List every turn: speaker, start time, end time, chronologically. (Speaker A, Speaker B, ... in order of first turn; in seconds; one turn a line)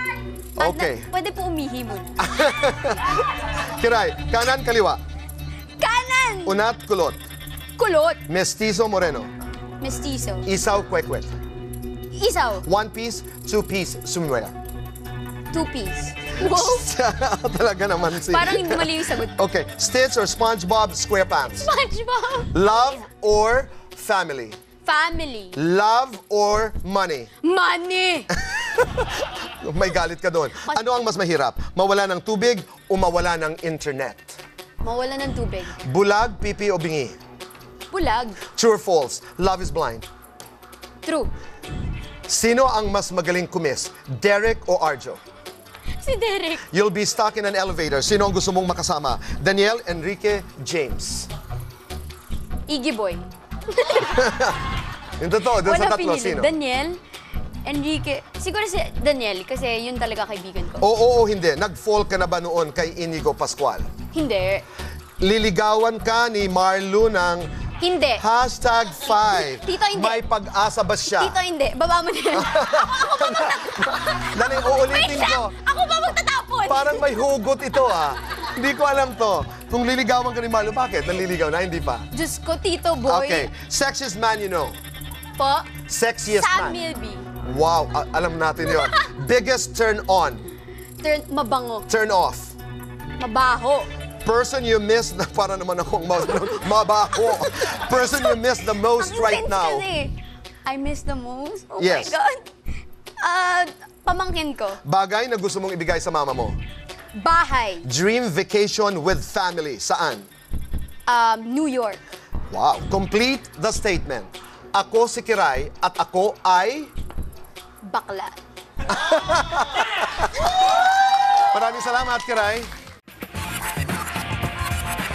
Speaker A: 0.6-2.2
Speaker B: 0.6-1.1
Speaker B: 2.2-5.0
Speaker A: 5.8-6.6
Speaker B: 6.5-7.2
Speaker A: 7.8-8.2
Speaker B: 8.3-9.3
Speaker A: 9.8-10.5
Speaker B: 10.4-11.3
Speaker A: 12.1-12.7
Speaker B: 12.6-14.6
Speaker A: 15.5-16.9
Speaker B: 16.4-21.7
Speaker A: 18.1-19.4
Speaker A: 21.6-22.9
Speaker B: 22.5-24.6
Speaker A: 24.9-25.6
Speaker B: 25.6-27.3
Speaker A: 27.4-28.3
Speaker B: 28.4-34.4
Speaker A: 34.8-35.8
Speaker B: 35.8-37.2
Speaker A: 37.9-38.5
Speaker B: 38.5-40.1
Speaker A: 41.0-41.3
Speaker B: 42.3-45.2
Speaker A: 46.0-46.7
Speaker B: 46.7-51.3
Speaker A: 52.7-54.3
Speaker B: 54.0-54.6
Speaker B: 55.2-56.5
Speaker A: 55.6-57.0
Speaker A: 57.6-60.9
Speaker B: 60.8-63.9
Speaker A: 64.1-64.7
Speaker B: 65.2-67.5
Speaker A: 67.8-68.2
Speaker B: 68.2-71.3
Speaker A: 69.1-70.2
Speaker A: 71.1-77.1
Speaker B: 72.3-75.6
Speaker B: 76.7-82.1
Speaker A: 82.1-83.5
Speaker B: 83.1-84.8
Speaker A: 85.4-87.3
Speaker B: 85.9-86.8
Speaker B: 87.4-90.5
Speaker A: 88.7-89.1
Speaker A: 91.0-91.9
Speaker B: 91.9-92.5
Speaker A: 93.2-93.9
Speaker B: 94.2-99.9
Speaker A: 96.4-102.5
Speaker B: 101.8-102.2
Speaker A: 103.2-104.8
Speaker B: 104.8-106.6
Speaker A: 107.2-107.9
Speaker B: 107.8-110.3
Speaker A: 111.1-112.0
Speaker B: 112.5-116.9
Speaker A: 117.8-118.4
Speaker B: 118.9-120.5
Speaker B: 121.3-122.7